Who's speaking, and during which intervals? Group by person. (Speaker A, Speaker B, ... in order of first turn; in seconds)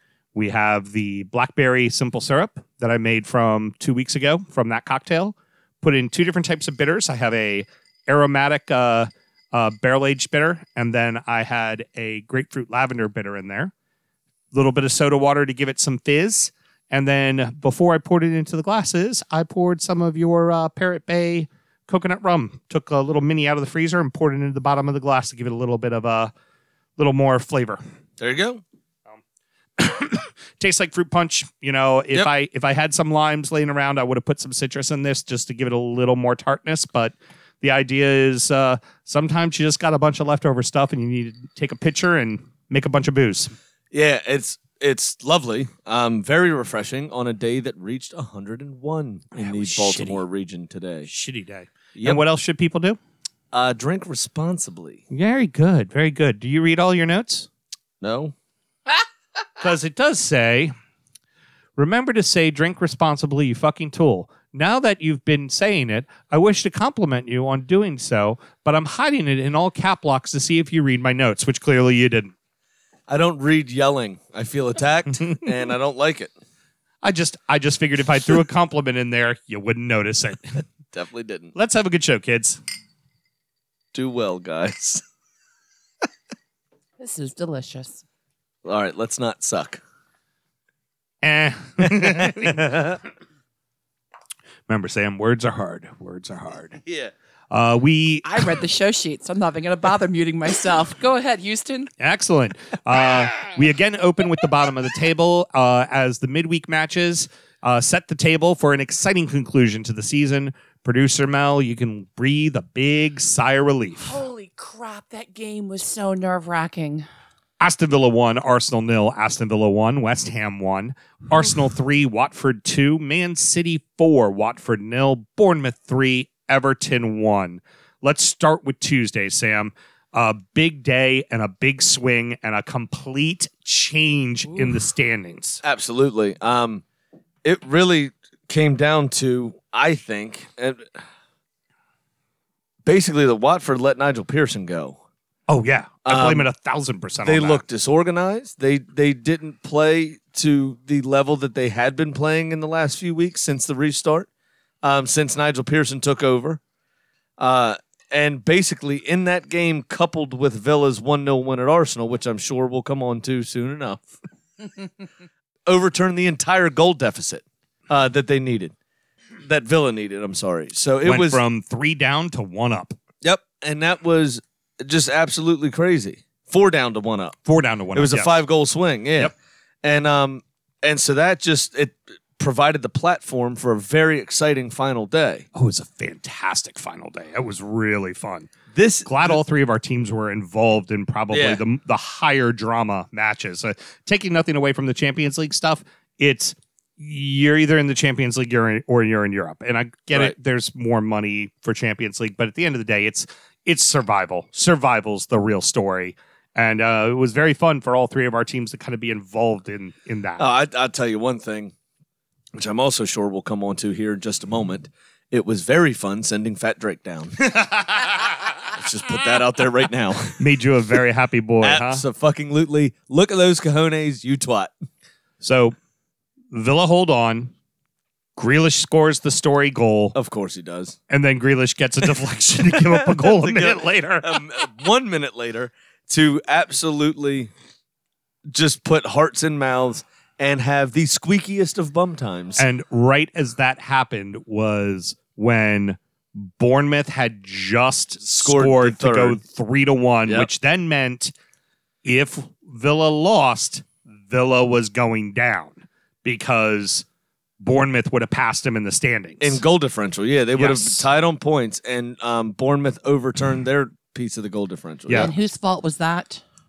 Speaker A: 0.3-13.7, 14.5-26.3, 27.0-27.8, 29.8-43.5, 49.4-50.2, 51.1-53.0, 55.1-57.5, 59.6-60.7, 61.8-72.3, 77.0-80.6, 81.5-82.6, 91.2-92.8, 94.7-96.8, 97.5-98.5, 102.0-114.2, 117.6-135.6, 145.5-147.6, 171.1-173.0, 177.5-178.4, 185.6-188.5, 189.1-210.5, 220.4-222.0, 225.4-225.8, 226.5-227.5, 228.4-230.2, 231.1-234.4, 242.6-251.3, 252.1-257.1, 257.6-259.6, 260.6-261.1
Speaker B: 28.2-28.6, 43.9-51.1, 52.0-52.2, 53.5-55.0, 58.0-58.4, 73.1-76.3, 80.9-81.5, 83.9-85.0, 88.6-89.8, 91.8-93.0, 96.9-97.1, 135.6-136.8, 137.4-140.9, 142.8-145.0, 146.1-146.5, 147.2-154.3, 154.8-156.6, 157.4-164.1, 165.7-168.8, 169.4-171.4, 173.2-177.4, 177.9-185.4, 188.7-189.4, 191.3-191.6, 210.4-211.7, 212.6-217.7, 218.7-220.4, 221.6-224.7, 230.2-231.0, 232.7-237.5, 238.5-242.6, 248.2-249.4, 259.4-265.3
Speaker C: 87.0-88.0, 98.2-101.9, 114.0-117.1, 265.1-266.4